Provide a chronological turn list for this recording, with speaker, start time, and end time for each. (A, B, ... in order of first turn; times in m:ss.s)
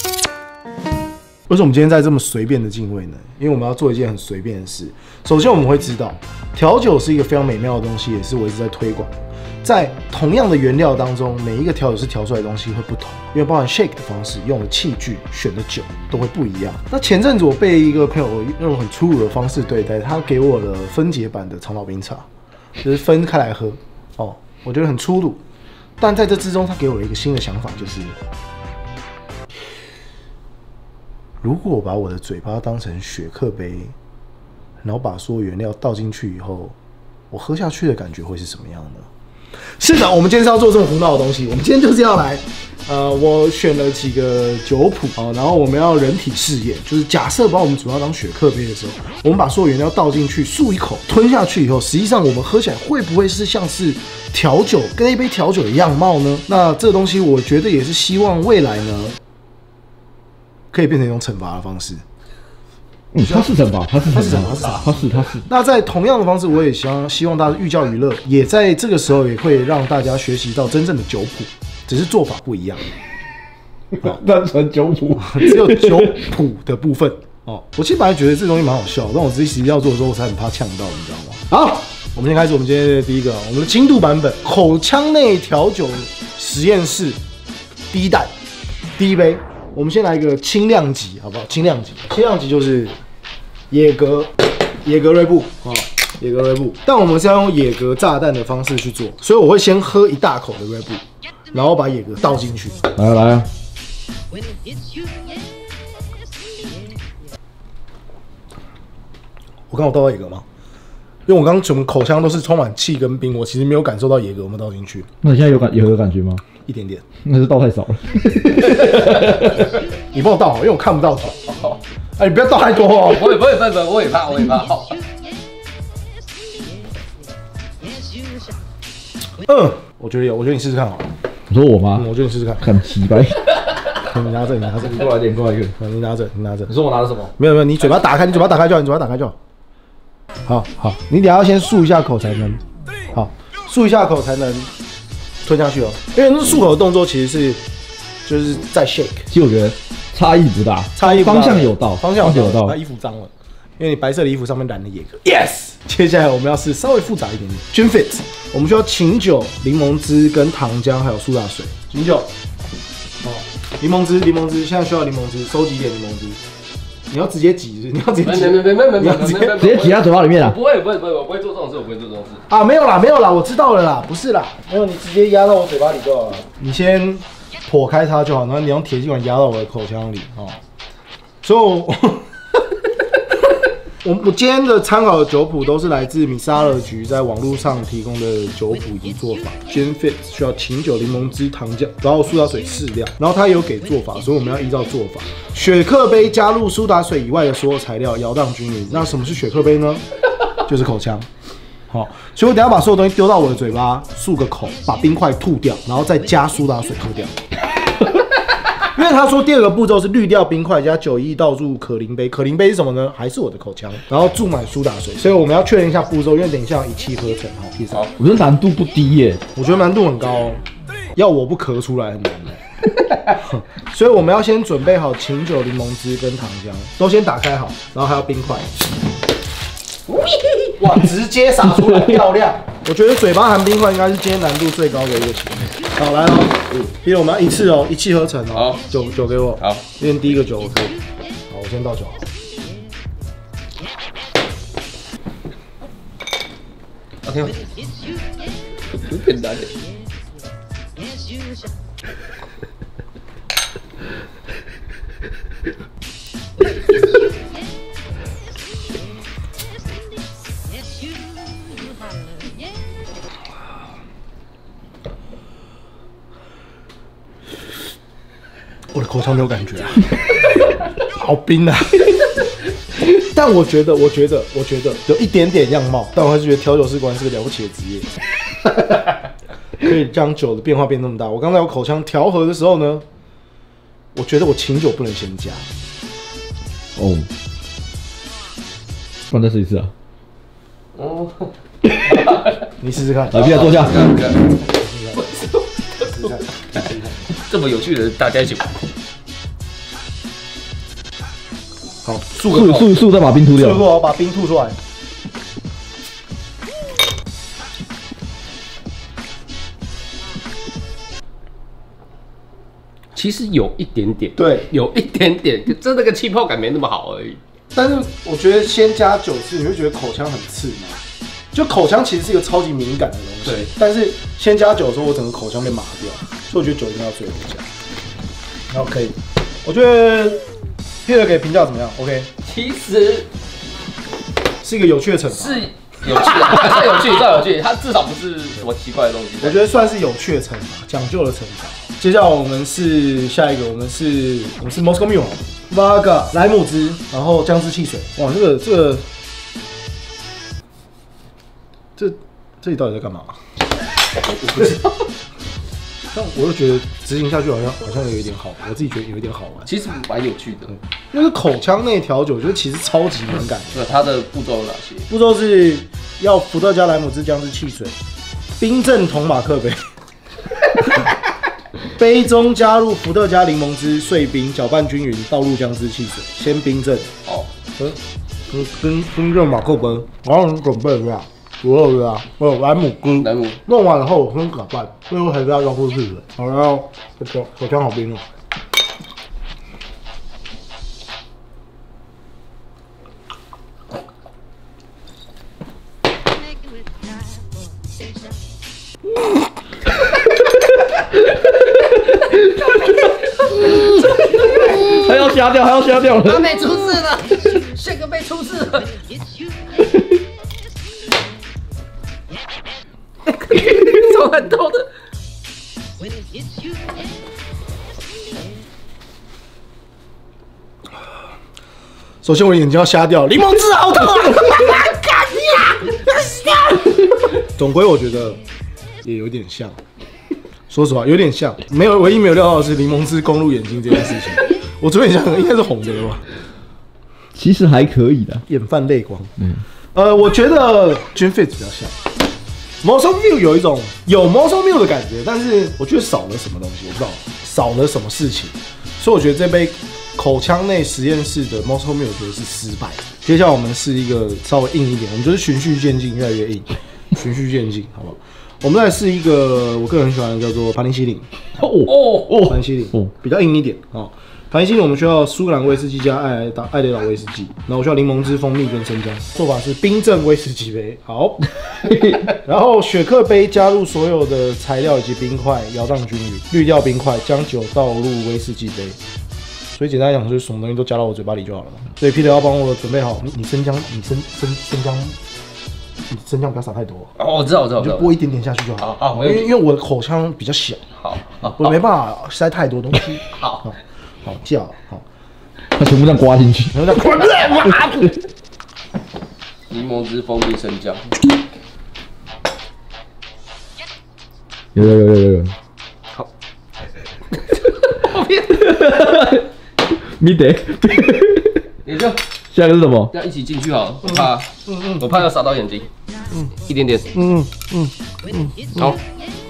0:01.5-0:09.1 A
0:09.6-0:22.2 A
0:22.8-0:25.4 A
0:26.0-0:28.2 A
0:31.4-0:33.9 A
0:34.8-0:36.7 A
0:37.3-0:39.1 A
0:39.8-0:59.2 A
1:00.7-1:02.0 A
1:03.1-1:05.4 B
1:03.2-1:03.5 A
1:04.1-1:12.9 A
1:13.9-1:16.2 B
1:15.2-1:27.2 A
1:27.9-1:28.3 A
1:29.0-1:33.0 A
1:33.7-1:42.8 A
1:42.9-1:43.5 B
1:49.7-1:50.4 A
1:51.3-1:55.1 A
1:55.2-1:56.4 B
1:56.6-1:57.0 A
1:57.2-1:59.7 B
2:00.1-2:01.6 A
2:01.5-2:01.8 C
2:02.2-2:03.4 A
2:03.0-2:05.0 C
2:09.4-2:11.1 A
2:11.5-2:12.0 B
2:11.9-2:12.7 A
2:12.6-2:13.5 B
2:14.0-2:15.1 A
2:14.8-2:15.8 B
2:15.8-2:16.7 A
2:16.7-2:17.3 B
2:17.4-2:19.4 A
2:20.4-2:24.7 A
2:25.4-2:27.6 A
2:28.2-2:29.3 A
2:29.3-2:32.8 B
2:31.0-2:42.3 A
2:43.2-2:46.4 A
2:47.1-2:49.6 A
2:48.2-2:52.4 C
2:49.5-2:50.6 B
2:52.5-3:00.6 A
3:01.4-3:02.3 A
3:04.0-3:20.0 A
3:20.6-3:21.3 A
3:21.9-3:27.4 A
3:28.8-3:38.1 A
3:38.2-3:39.4 B
3:39.5-3:40.6 A
3:41.1-3:42.6 A
3:43.3-3:48.8 A
3:50.1-3:51.0 C
3:50.8-4:01.0 A
3:51.9-3:52.2 B
3:58.5-3:58.8 C
3:59.6-3:59.8 C
4:01.5-4:02.2 A
4:07.2-4:07.6 C
4:08.9-4:09.7 C
4:28.9-4:30.2 A
4:31.0-4:32.2 A
4:32.9-4:38.2 A
4:39.8-4:43.0 A
4:44.1-4:45.7 A
4:47.0-4:47.3 B
4:49.3-4:49.9 B
4:50.9-4:51.5 C
4:52.0-4:52.6 C
4:52.8-4:53.7 A
4:53.3-4:54.2 B
4:53.3-4:58.8 C
4:54.7-4:55.3 A
4:56.0-4:57.2 A
5:02.0-5:02.8 A
5:02.4-5:03.8 B
5:02.5-5:02.8 C
5:03.5-5:04.8 A
5:13.1-5:17.4 C
5:14.4-5:14.7 A
5:17.7-5:21.0 A
5:21.5-5:27.7 A
5:28.7-5:30.4 A
5:31.0-5:32.3 A
5:32.4-5:33.3 C
5:34.6-5:35.6 A
5:35.3-5:39.6 C
5:39.4-5:49.0 A
5:52.0-5:53.4 A
5:54.2-5:54.9 C
5:56.1-5:59.7 A
5:59.7-6:00.7 C
6:01.1-6:03.9 A
6:03.7-6:05.1 C
6:05.1-6:08.0 A
6:08.6-6:09.9 A
6:11.9-6:17.1 A
6:18.5-6:28.2 A
6:23.2-6:23.6 C
6:41.0-6:43.1 B
6:42.7-6:45.0 C
6:43.7-6:46.7 B
6:46.2-6:49.0 C
6:49.8-6:50.2 B
6:53.2-6:54.9 C
7:02.2-7:08.4 A
7:09.0-7:09.8 A
7:10.7-7:16.2 A
7:17.3-7:18.4 B
7:18.4-7:21.9 A
7:22.8-7:41.3 A
7:41.6-7:43.1 B
7:41.9-7:42.3 C
7:42.4-7:59.0 A
7:51.9-7:52.2 B
7:59.7-8:05.2 A
8:06.1-8:07.1 A
8:07.2-8:08.2 C
8:07.8-8:10.8 A
8:08.8-8:09.5 C
8:11.0-8:11.8 C
8:11.4-8:15.0 A
8:13.2-8:13.7 C
8:15.7-8:18.1 B
8:16.7-8:17.9 A
8:19.7-8:21.2 C
8:24.7-8:25.5 B
8:27.3-8:28.7 C
8:28.5-8:31.6 B
8:31.8-8:32.2 C
8:32.5-8:33.1 B
8:33.1-8:35.9 C
8:34.1-8:35.0 A
8:36.5-8:37.1 C
8:37.1-8:37.9 A